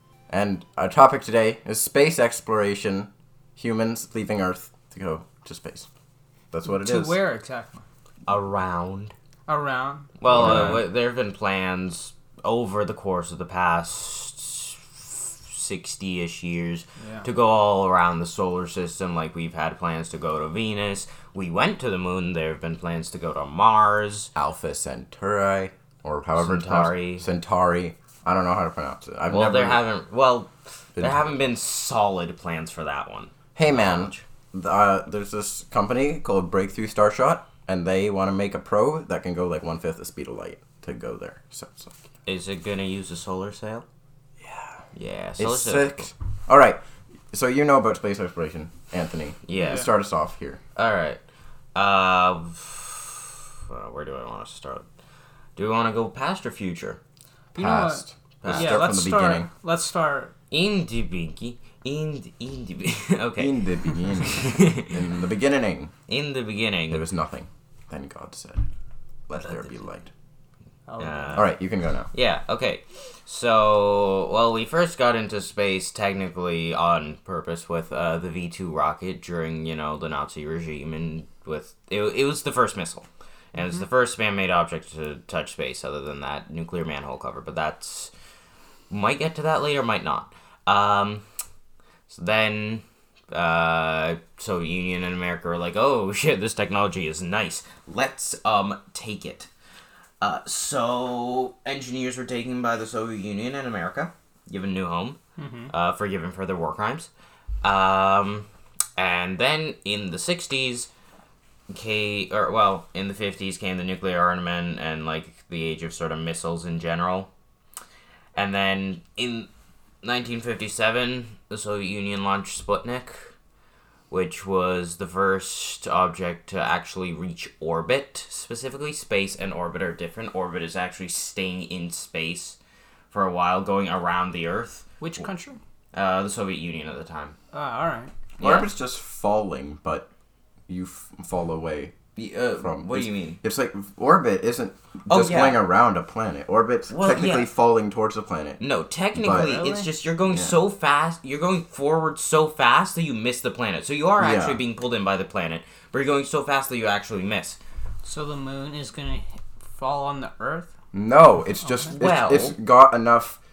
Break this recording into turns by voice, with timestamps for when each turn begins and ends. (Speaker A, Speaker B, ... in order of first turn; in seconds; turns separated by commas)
Speaker A: 0.3-5.9, Speaker A: 6.5-7.2, Speaker B: 6.7-7.8, Speaker C: 8.3-9.1, Speaker B: 9.5-10.8, Speaker C: 10.2-24.3, Speaker A: 10.3-10.8, Speaker B: 17.0-17.3, Speaker A: 24.4-29.8, Speaker C: 26.4-27.2, Speaker C: 29.3-34.2, Speaker A: 31.0-31.4, Speaker A: 33.6-41.9, Speaker C: 42.3-43.9, Speaker A: 44.4-44.8, Speaker C: 45.0-46.0, Speaker A: 45.4-46.8, Speaker A: 47.3-50.6, Speaker C: 49.5-49.9, Speaker C: 50.8-51.2, Speaker C: 51.8-54.9, Speaker C: 55.6-57.0, Speaker A: 57.5-59.5, Speaker B: 57.5-60.3, Speaker C: 58.4-58.9, Speaker C: 60.5-63.6, Speaker A: 63.4-65.9, Speaker C: 64.2-64.9, Speaker C: 66.1-67.0, Speaker A: 66.9-68.6, Speaker A: 69.3-70.1, Speaker B: 70.9-71.4, Speaker C: 71.0-71.5, Speaker A: 71.3-72.1, Speaker C: 72.1-88.1, Speaker C: 88.9-91.2, Speaker C: 92.1-99.5, Speaker C: 100.2-105.2, Speaker B: 105.4-105.7, Speaker C: 105.7-107.1, Speaker C: 107.6-108.5, Speaker C: 109.0-110.9, Speaker C: 111.7-117.3, Speaker C: 118.3-119.5, Speaker C: 120.0-123.3, Speaker C: 124.1-132.6, Speaker C: 133.1-134.9, Speaker B: 135.0-135.6, Speaker C: 135.9-137.4, Speaker B: 137.5-138.1, Speaker C: 138.4-138.7, Speaker A: 138.4-140.1, Speaker A: 140.7-142.0, Speaker C: 142.2-143.4, Speaker A: 142.6-148.6, Speaker C: 145.1-145.6, Speaker C: 146.9-147.5, Speaker C: 148.6-157.6, Speaker A: 149.2-149.6, Speaker B: 149.3-149.9, Speaker A: 150.2-150.6, Speaker A: 154.2-154.6, Speaker B: 158.0-160.7, Speaker A: 160.9-163.4, Speaker B: 161.6-161.9, Speaker C: 161.9-162.6